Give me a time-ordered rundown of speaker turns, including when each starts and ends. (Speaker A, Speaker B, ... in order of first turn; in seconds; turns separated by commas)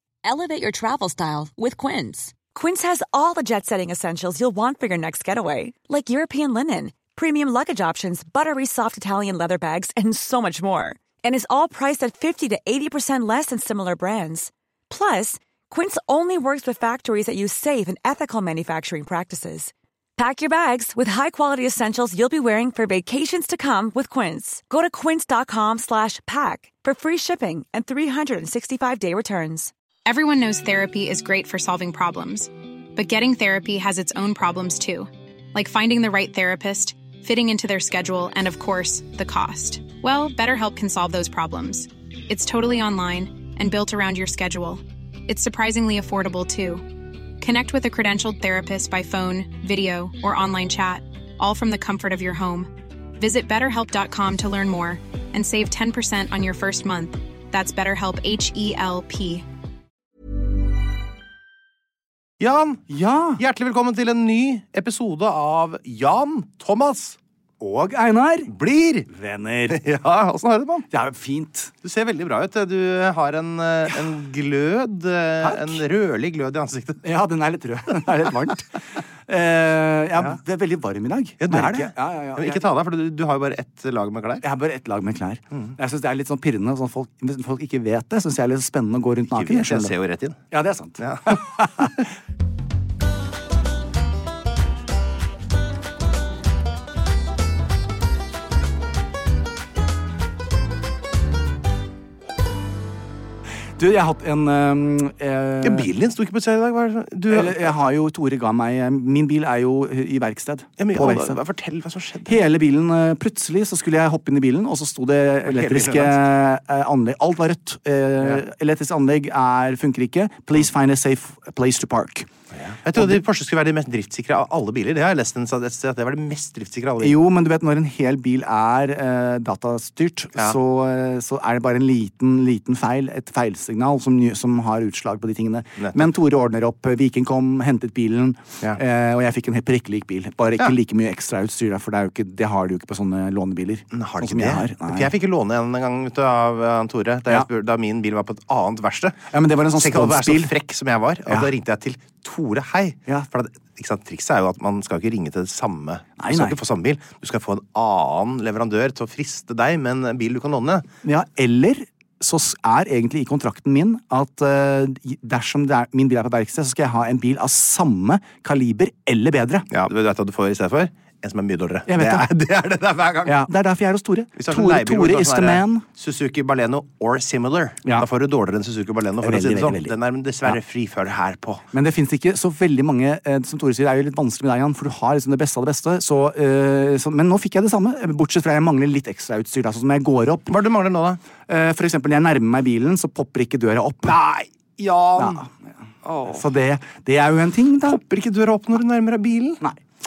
Speaker A: 0.4-29.7, Speaker B: 30.1-46.9, Speaker B: 47.4-59.5, Speaker C: 62.4-67.2, Speaker D: 62.9-63.4, Speaker D: 67.6-68.5, Speaker C: 68.5-69.1, Speaker D: 69.1-69.8, Speaker C: 69.7-70.9, Speaker D: 70.9-71.7, Speaker C: 71.8-77.0, Speaker D: 75.4-75.8, Speaker D: 77.0-78.7, Speaker D: 79.3-82.7, Speaker C: 81.4-84.5, Speaker D: 84.4-90.0, Speaker C: 89.3-90.4, Speaker D: 90.5-92.0, Speaker C: 91.0-92.0, Speaker D: 103.8-105.9, Speaker C: 105.6-107.7, Speaker D: 107.3-111.4, Speaker C: 110.8-112.4, Speaker D: 112.3-122.3, Speaker C: 115.4-116.2, Speaker C: 122.5-127.2, Speaker D: 127.0-145.1, Speaker C: 135.8-136.1, Speaker C: 143.9-160.9, Speaker D: 149.3-150.5, Speaker D: 156.2-156.6, Speaker D: 161.0-169.7, Speaker C: 169.7-173.5, Speaker D: 171.9-172.3, Speaker D: 173.3-175.8, Speaker C: 174.4-181.7, Speaker D: 179.2-180.6, Speaker D: 181.7-190.6, Speaker C: 190.5-191.2, Speaker D: 191.5-194.2, Speaker C: 194.1-195.4, Speaker D: 195.2-195.5, Speaker C: 196.0-196.4, Speaker D: 196.2-198.0, Speaker C: 197.8-199.6